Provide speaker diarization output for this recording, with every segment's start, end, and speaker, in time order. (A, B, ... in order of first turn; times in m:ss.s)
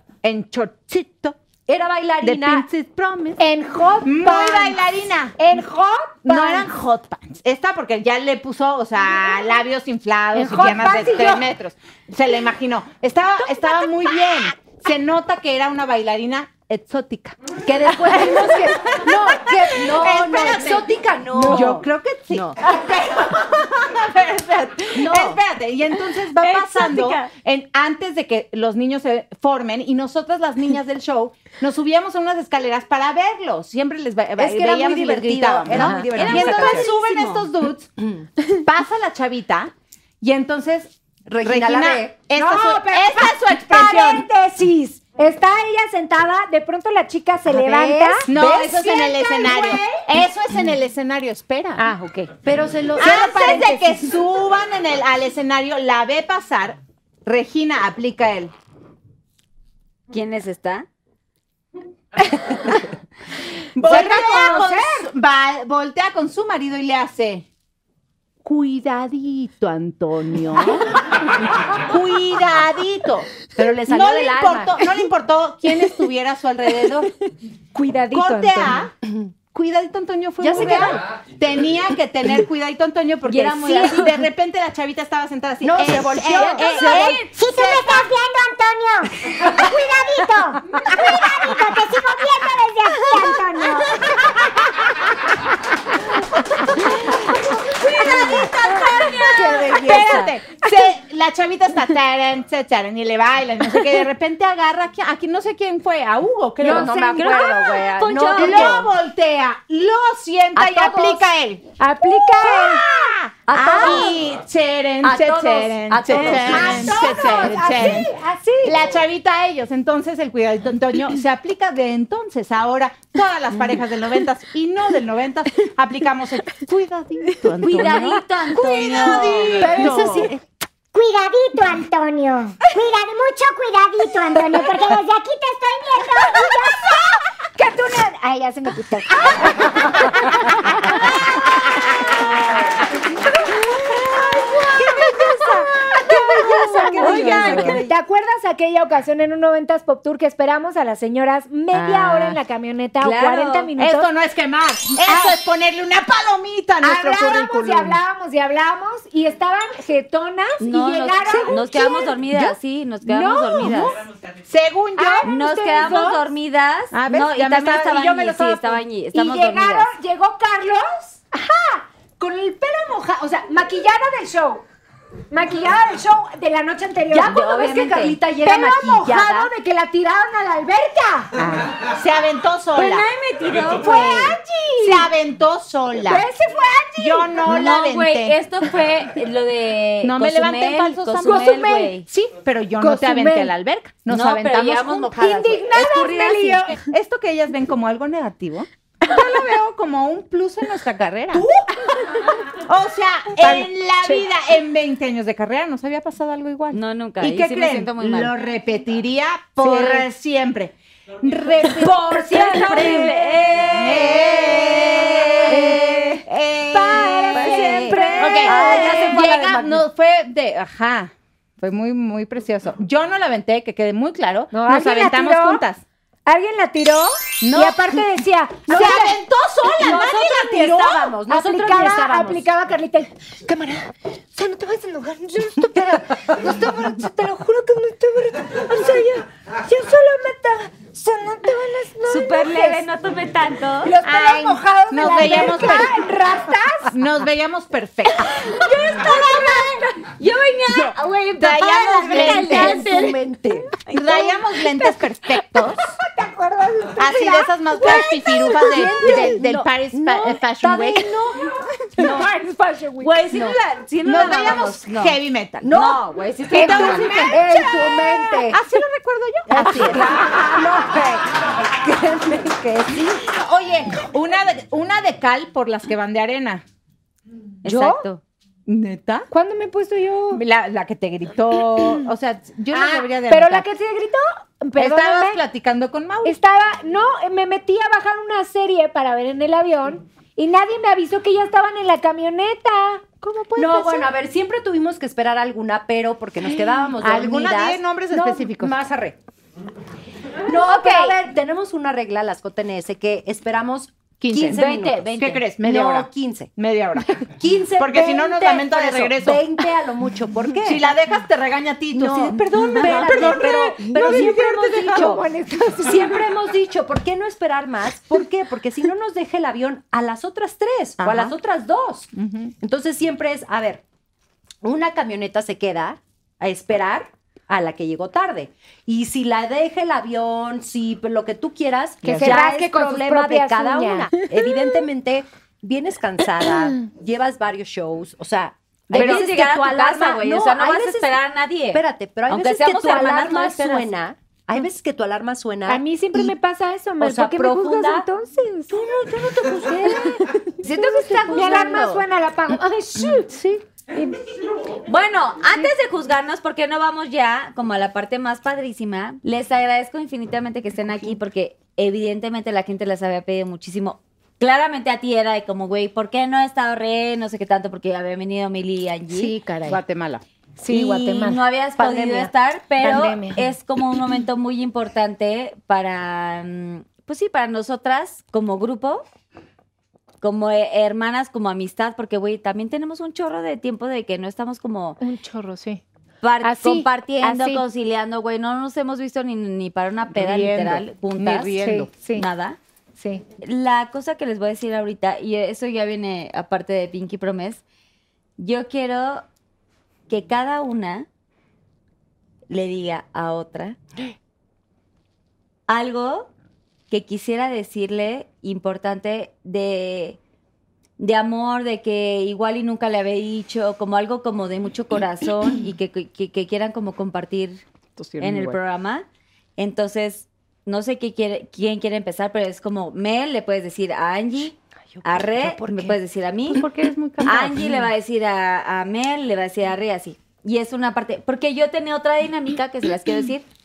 0:00.2-0:01.4 A
0:01.7-0:02.7 B
0:02.2-0:03.4 A
0:03.4-0:04.8 C
0:04.0-0:05.4 A
0:05.4-0:06.7 C
0:06.2-0:37.9 A
0:10.3-0:11.4 C
0:17.6-0:22.6 B
0:18.2-0:19.0 C
0:21.3-0:21.8 C
0:24.9-0:25.4 B
0:26.3-0:27.3 D
0:34.4-0:36.9 B
0:35.7-0:37.5 D
0:38.0-0:38.3 B
0:38.6-0:44.2 A
0:41.3-0:42.2 B
0:42.3-0:50.1 C
0:47.5-0:48.8 B
0:48.3-0:51.8 A
0:51.8-0:52.3 C
0:52.4-0:54.0 B
0:53.0-0:58.5 A
0:53.2-0:53.6 C
1:00.1-1:00.9 D
1:03.7-1:07.4 A
1:03.8-1:05.0 C
1:08.4-1:11.0 A
1:11.7-1:17.1 A
1:13.5-1:14.8 B
1:17.7-1:18.9 C
1:18.1-1:18.9 A
1:19.5-1:28.1 A
1:20.4-1:21.0 B
1:23.2-1:24.2 D
1:25.6-1:27.2 B
1:26.6-1:27.2 D
1:27.3-1:34.5 E
1:37.8-1:40.1 D
1:37.8-1:47.2 A
1:37.8-1:38.3 C
1:38.0-1:38.4 B
1:39.1-1:40.4 B
1:46.6-1:47.1 C
1:46.6-1:48.9 B
1:47.1-1:48.8 D
1:48.3-1:51.6 A
1:50.6-1:51.0 B
1:50.6-1:51.2 C
1:51.8-1:52.8 C
1:52.2-1:58.1 A
1:53.5-1:54.2 B
1:53.7-1:54.1 C
1:55.0-1:58.0 B
1:56.1-1:58.8 C
1:58.6-2:10.3 A
2:07.6-2:09.8 D
2:09.4-2:10.3 B
2:10.9-2:17.0 E
2:17.6-2:21.1 C
2:23.9-2:34.1 C
2:26.0-2:27.8 B
2:26.7-2:27.9 D
2:27.0-2:27.8 A
2:31.7-2:32.3 A
2:33.0-2:33.7 D
2:33.8-2:38.0 A
2:35.0-2:35.4 C
2:36.8-2:42.2 C
2:40.6-2:44.0 D
2:43.0-2:44.0 C
2:44.4-2:45.3 A
2:45.0-2:46.2 C
2:45.2-2:49.9 D
2:46.9-2:48.5 A
2:48.1-2:48.6 C
2:49.1-2:54.6 C
2:55.3-2:57.4 C
2:57.1-2:59.5 B
2:57.2-2:58.2 D
2:58.4-3:01.4 C
3:01.4-3:03.1 A
3:02.7-3:04.4 D
3:03.8-3:05.1 C
3:04.8-3:06.3 A
3:06.0-3:07.4 C
3:07.0-3:08.4 A
3:07.4-3:12.0 D
3:10.0-3:11.5 A
3:11.2-3:13.5 C
3:12.4-3:15.6 A
3:14.1-3:16.7 D
3:15.2-3:16.8 C
3:16.8-3:21.4 A
3:19.1-3:19.4 C
3:21.3-3:22.5 C
3:22.6-3:33.1 A
3:23.4-3:24.2 C
3:26.7-3:28.3 D
3:29.6-3:30.0 D
3:31.8-3:36.2 D
3:32.0-3:33.3 C
3:33.7-3:45.8 A
3:35.5-3:36.2 C
3:36.7-3:39.2 C
3:37.3-3:39.5 D
3:38.4-3:39.8 B
3:44.5-3:45.6 C
3:46.2-3:49.2 C
3:47.4-3:48.0 A
3:48.7-3:51.1 A
3:49.6-3:52.4 B
3:49.8-3:50.2 C
3:51.3-4:02.8 C
4:02.1-4:04.0 D
4:03.8-4:06.9 C
4:04.0-4:06.1 A
4:06.9-4:08.3 A
4:08.2-4:10.1 C
4:08.4-4:13.2 D
4:10.8-4:13.1 C
4:11.4-4:12.8 A
4:12.0-4:13.7 B
4:13.8-4:14.4 D
4:13.9-4:16.0 A
4:16.0-4:19.3 C
4:17.0-4:21.1 A
4:17.9-4:22.2 B
4:21.9-4:23.2 C
4:23.0-4:25.2 D
4:23.3-4:23.6 B
4:24.0-4:25.7 A
4:25.6-4:28.6 B
4:25.7-4:27.1 D
4:26.5-4:27.4 A
4:26.5-4:28.4 C
4:28.5-4:30.8 A
4:29.5-4:33.1 B
4:33.0-4:36.6 A
4:37.6-4:38.2 D
4:37.6-4:38.0 C
4:37.7-4:38.0 A
4:38.7-4:39.3 A
4:39.3-4:40.4 C
4:40.3-4:43.6 A
4:42.7-4:45.4 C
4:44.8-4:46.3 A
4:46.2-4:53.1 C
4:53.2-4:54.0 A
4:53.6-4:59.2 B
4:57.0-4:58.8 A
5:00.4-5:06.5 B
5:00.4-5:01.2 C
5:04.2-5:04.6 A
5:04.5-5:05.4 D
5:05.2-5:09.5 A
5:07.2-5:10.9 B
5:10.6-5:15.1 A
5:11.9-5:15.3 B
5:12.8-5:16.2 C
5:15.8-5:23.8 B
5:21.0-5:21.3 A
5:22.1-5:22.5 A
5:24.6-5:41.2 B
5:32.0-5:32.4 A
5:32.1-5:34.6 C
5:38.9-5:43.9 D
5:38.9-5:39.3 A
5:41.7-5:46.3 B
5:45.7-5:48.7 C
5:47.0-5:48.0 B
5:48.7-5:50.4 B
5:50.5-5:53.3 C
5:50.6-5:52.0 D
5:53.0-5:53.6 B
5:53.9-5:54.2 C
5:54.8-6:09.3 D
6:09.1-6:09.8 C
6:09.5-6:10.2 A
6:10.6-6:11.4 C
6:10.7-6:19.0 D
6:11.8-6:12.3 B
6:12.8-6:13.5 C
6:20.2-6:25.0 D
6:25.0-6:25.8 C
6:26.2-6:31.6 D
6:26.4-6:27.6 C
6:30.1-6:31.9 A
6:31.6-6:32.3 C
6:32.1-6:32.6 D
6:33.0-6:33.2 C
6:33.4-6:37.6 D
6:38.4-6:39.2 D
6:40.1-6:41.1 D
6:42.5-6:43.8 D
6:45.7-6:46.3 D
6:46.9-6:50.2 D
6:51.0-6:57.6 D
6:58.0-6:58.6 A
6:58.2-6:59.0 D
6:59.6-7:06.6 D
7:04.9-7:06.0 B
7:06.5-7:07.9 A
7:07.2-7:13.4 D